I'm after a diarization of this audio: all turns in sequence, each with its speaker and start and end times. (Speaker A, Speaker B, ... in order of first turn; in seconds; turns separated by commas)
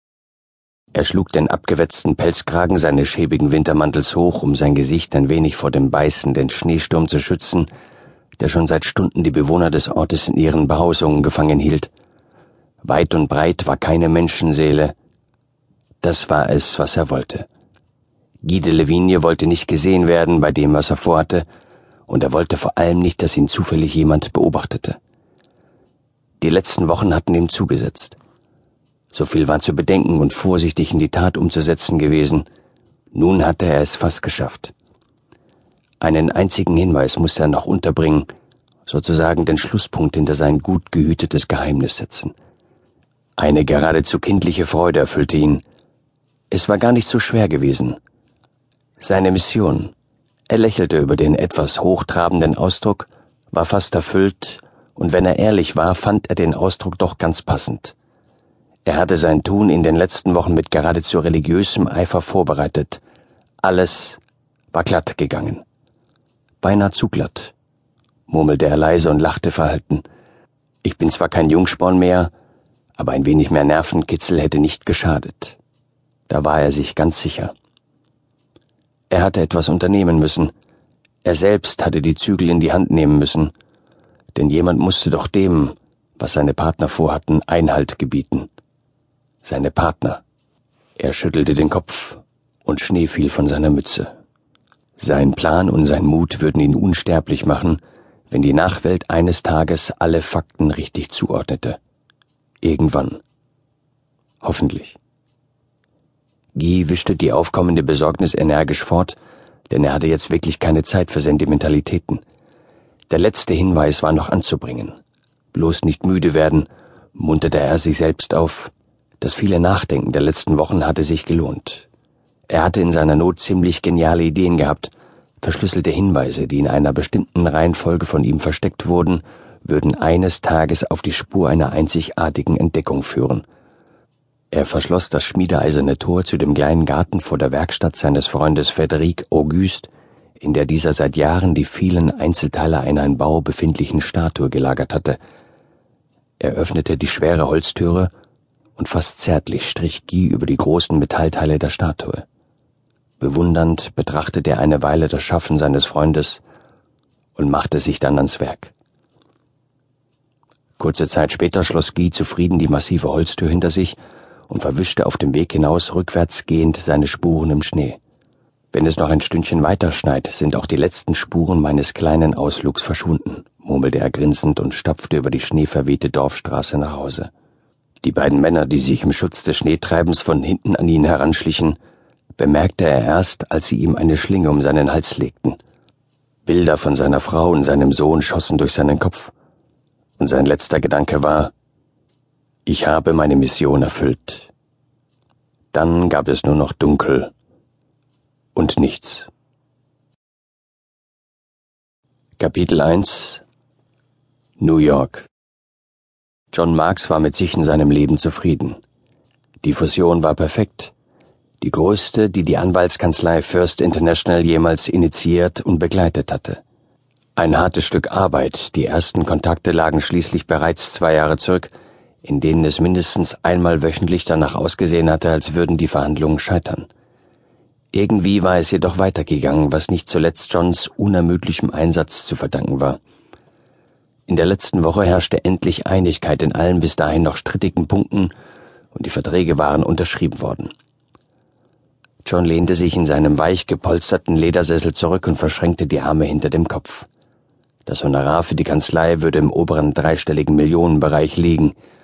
Speaker A: 0.9-7.7, Speaker A: 8.4-11.9, Speaker A: 12.8-14.9, Speaker A: 16.0-17.5, Speaker A: 18.4-21.4, Speaker A: 22.1-25.0, Speaker A: 26.4-28.2, Speaker A: 29.1-32.5, Speaker A: 33.1-34.7, Speaker A: 36.0-38.3, Speaker A: 38.9-42.3, Speaker A: 43.4-45.6, Speaker A: 46.5-48.0, Speaker A: 49.0-49.9, Speaker A: 50.5-58.0, Speaker A: 58.9-63.0, Speaker A: 63.6-64.2, Speaker A: 64.7-65.6, Speaker A: 66.6-67.5, Speaker A: 68.3-70.0, Speaker A: 70.8-72.3, Speaker A: 73.0-75.6, Speaker A: 76.3-77.5, Speaker A: 79.1-80.5, Speaker A: 81.2-83.5, Speaker A: 84.3-88.5, Speaker A: 89.4-90.2, Speaker A: 91.0-94.1, Speaker A: 95.0-101.8, Speaker A: 102.6-103.2, Speaker A: 104.4-105.0, Speaker A: 106.5-109.2, Speaker A: 109.7-112.2, Speaker A: 113.1-115.0, Speaker A: 115.5-121.9, Speaker A: 122.5-133.4, Speaker A: 134.5-145.2, Speaker A: 146.4-148.1, Speaker A: 148.8-152.2, Speaker A: 153.2-156.4, Speaker A: 157.4-158.7, Speaker A: 160.8-164.0, Speaker A: 164.5-168.0, Speaker A: 168.7-177.3, Speaker A: 178.0-181.8, Speaker A: 182.4-185.6, Speaker A: 186.4-189.3, Speaker A: 190.2-191.5, Speaker A: 192.7-194.5, Speaker A: 195.7-197.3, Speaker A: 198.6-199.3, Speaker A: 202.4-203.4, Speaker A: 204.6-205.3, Speaker A: 206.5-208.8, Speaker A: 209.6-210.9, Speaker A: 211.6-216.6, Speaker A: 217.4-221.7, Speaker A: 222.2-226.9, Speaker A: 227.9-233.0, Speaker A: 234.3-238.3, Speaker A: 238.9-240.7, Speaker A: 242.2-247.1, Speaker A: 247.9-251.8